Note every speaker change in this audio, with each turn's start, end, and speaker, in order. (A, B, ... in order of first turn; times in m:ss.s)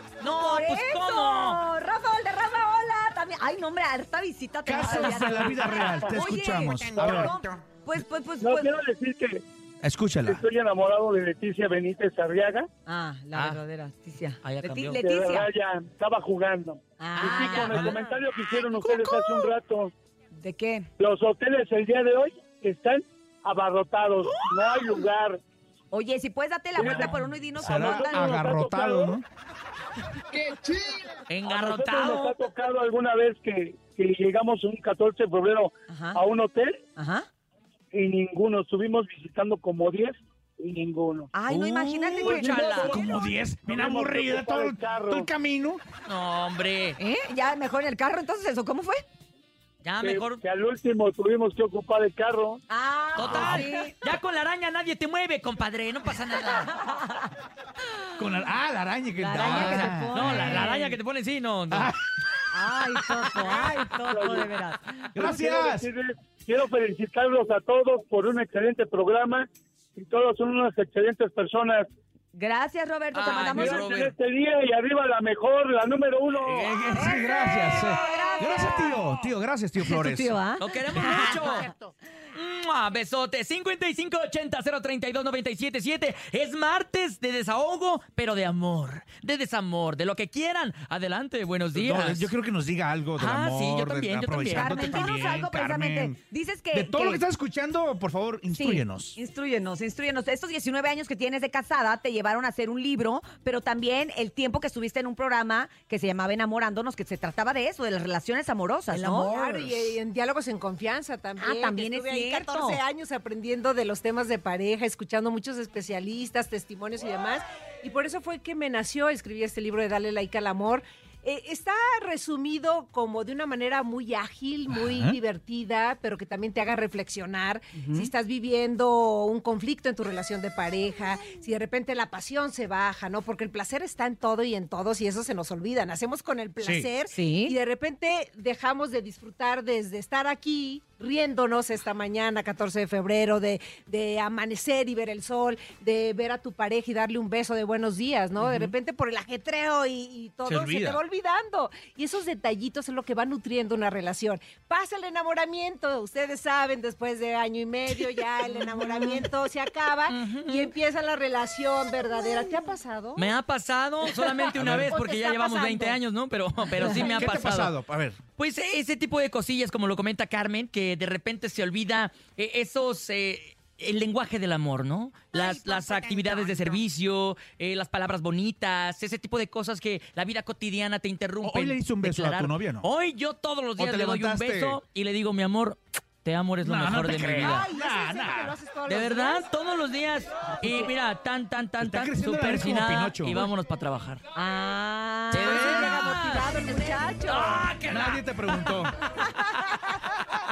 0:00.2-0:01.6 A
0:00.3-0:08.7 B
0:04.6-0:07.4 C
0:08.4-0:09.4 D
0:09.8-0:10.4 C
0:10.2-0:12.7 D
0:12.9-0:15.5 B
0:13.3-0:13.6 A
0:14.4-0:15.1 A
0:15.1-0:19.9 D
0:17.0-0:18.0 B
0:20.3-0:20.9 B
0:21.0-0:25.4 D
0:25.9-0:28.4 B
0:26.8-0:27.1 D
0:27.6-0:29.2 C
0:27.9-0:29.2 D
0:31.3-0:32.4 A
0:31.5-0:36.7 D
0:35.9-0:36.2 B
0:37.0-0:37.3 B
0:37.9-0:41.3 D
0:41.3-0:43.1 B
0:41.5-0:43.0 A
0:42.2-0:45.3 D
0:43.0-0:45.8 C
0:46.0-0:47.0 A
0:47.0-0:49.0 B
0:49.8-0:50.4 A
0:50.0-0:52.6 D
0:52.7-0:53.9 B
0:53.1-0:56.9 A
0:53.2-0:53.6 C
0:58.2-1:00.6 C
0:59.2-1:01.0 B
0:59.3-1:01.9 A
1:02.5-1:05.1 B
1:04.1-1:04.5 D
1:05.1-1:05.9 C
1:05.2-1:11.9 D
1:12.3-1:13.8 B
1:13.1-1:14.1 A
1:13.5-1:16.6 D
1:16.4-1:20.3 C
1:16.9-1:19.1 B
1:17.7-1:18.3 A
1:19.8-1:21.7 B
1:20.6-1:21.7 A
1:22.3-1:32.3 A
1:31.7-1:36.2 C
1:33.2-1:35.1 A
1:34.5-1:37.2 B
1:36.7-1:39.2 C
1:38.5-1:49.7 B
1:48.9-2:43.3 E
1:51.4-1:52.8 B
2:04.8-2:05.2 C
2:07.7-2:08.1 B
2:16.6-2:16.9 C
2:17.1-2:17.5 B
2:28.4-2:28.7 B
2:30.4-2:31.0 C
2:38.5-2:39.1 A
2:40.1-2:40.7 A
2:43.2-2:47.8 A
2:44.1-2:46.0 E
2:44.6-2:44.9 C
2:46.8-2:47.3 E
2:47.1-2:48.2 C
2:48.4-3:07.6 A
3:01.4-3:02.8 C
3:03.8-3:04.8 C
3:06.6-3:08.5 C
3:07.2-3:09.5 E
3:08.8-3:14.2 A
3:10.5-3:10.9 B
3:11.8-3:13.4 C
3:14.3-3:17.6 B
3:15.3-3:16.5 A
3:15.4-3:17.6 E
3:17.2-3:18.9 A
3:17.9-3:18.9 C
3:19.2-3:20.0 B